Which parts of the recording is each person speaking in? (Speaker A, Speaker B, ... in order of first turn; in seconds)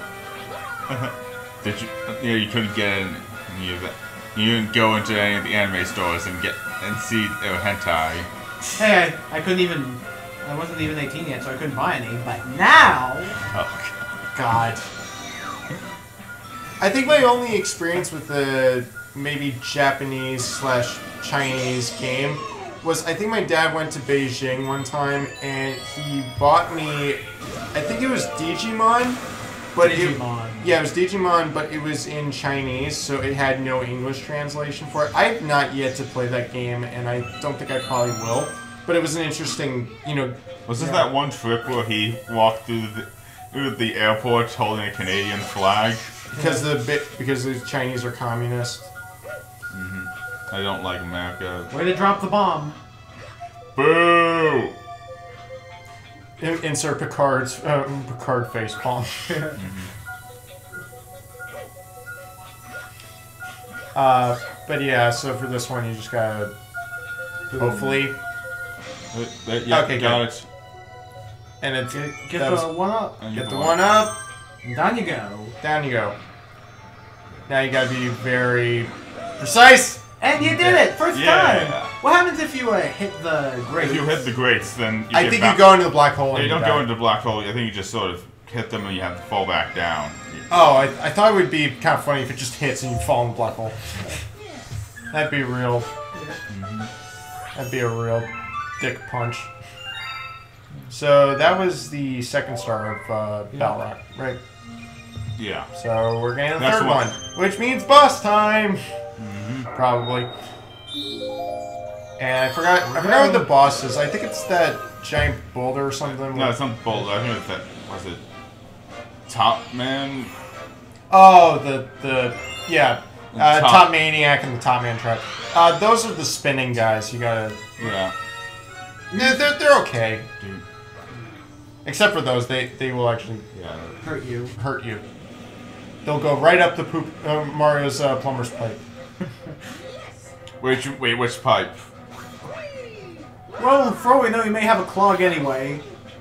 Speaker A: 0.9-8.3, 13.5-13.9, 40.7-46.1, 49.7-51.7, 53.8-54.7, 59.5-59.9, 69.1-70.5, 73.2-73.8, 81.1-81.9, 83.8-85.8, 86.3-90.6, 96.5-96.9, 105.4-105.7, 106.6-107.1, 109.2-109.7, 116.2-118.2, 119.3-120.3, 123.3-123.9, 127.8-128.1, 133.5-134.0, 140.6-141.8
Speaker B: 8.8-13.3, 29.8-30.7, 46.3-46.6, 51.7-52.8, 67.5-68.0, 71.9-73.2, 74.6-75.5, 80.2-84.2, 112.9-113.5, 129.1-129.4, 134.0-134.5, 143.6-145.8
Speaker C: 14.3-14.8, 16.8-27.2, 27.7-29.2, 29.7-40.4, 46.3-48.9, 56.4-59.4, 63.9-66.5, 67.6-68.2, 69.7-70.2, 71.6-72.7, 73.3-74.2, 75.6-76.2, 77.5-80.8, 85.1-86.8, 90.5-93.8, 95.1-95.9, 97.5-99.5, 100.9-104.4, 105.7-108.8, 109.7-110.3, 112.2-116.5, 121.1-127.7, 129.1-130.3, 131.8-133.4, 134.5-135.0, 136.0-138.8